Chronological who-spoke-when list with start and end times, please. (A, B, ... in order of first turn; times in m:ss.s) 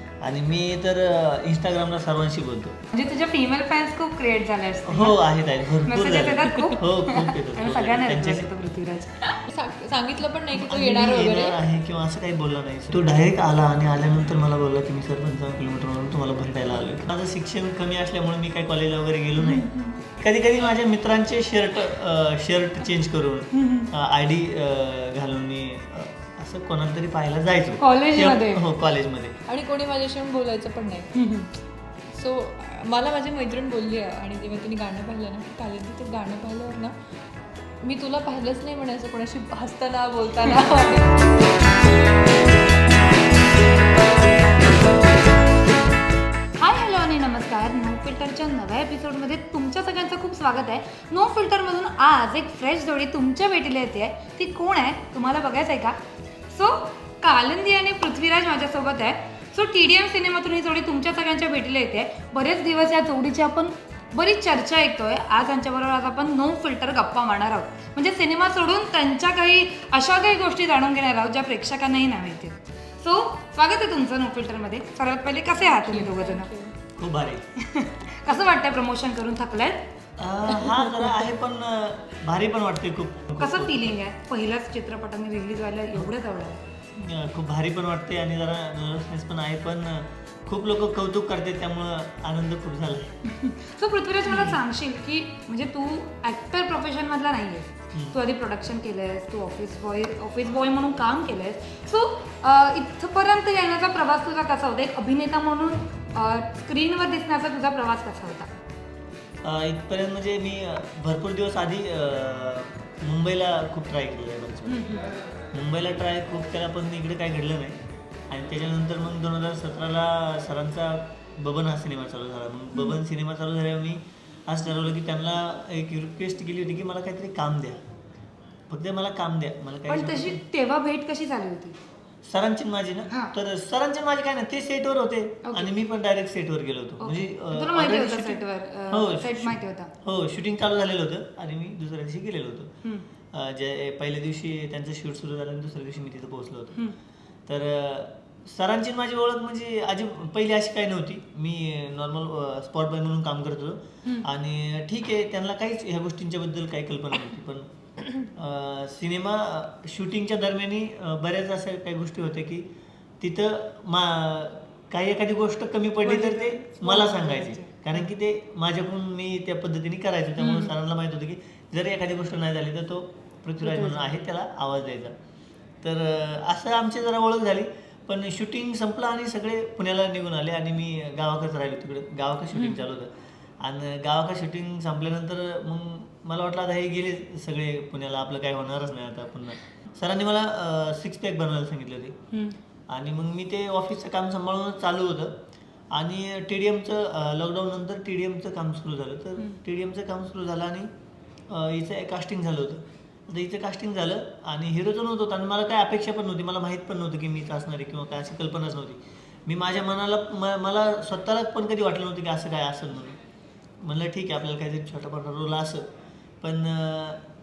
0:00.2-0:02.8 A
0:02.9-0:05.2 B
0:04.8-0:08.5 A
0:05.8-0:09.4 B
0:09.5-0:11.6 C
0:10.5-0:19.7 A
0:19.4-0:20.0 B
0:20.2-0:29.3 A
0:23.5-0:23.9 B
0:27.8-0:28.6 B
0:29.5-0:31.1 C
0:31.1-0:31.5 B
0:32.1-0:36.9 C
0:37.8-0:41.3 C
0:46.6-0:56.0 B
0:56.5-1:16.5 B
1:15.5-1:16.8 C
1:17.0-1:17.4 A
1:17.6-1:19.8 B
1:20.2-1:24.0 A
1:20.6-1:21.0 C
1:23.4-1:26.6 B
1:26.9-1:33.2 A
1:33.2-1:48.5 B
1:34.3-1:34.6 A
1:49.4-1:54.9 A
1:54.7-1:55.1 B
1:55.5-1:57.8 A
1:58.3-2:07.8 A
2:08.7-2:10.4 A
2:09.9-2:11.8 B
2:12.2-2:22.7 A
2:17.0-2:19.9 B
2:23.3-2:26.8 A
2:27.5-2:42.6 A
2:43.2-2:55.1 A
2:46.0-2:48.0 B
2:50.4-2:50.7 B
2:53.6-2:54.0 B
2:55.8-3:12.2 A
3:02.5-3:02.8 B
3:12.9-3:15.4 A
3:15.9-3:20.9 A
3:21.5-3:33.2 A
3:33.8-3:35.9 A
3:36.4-3:37.2 A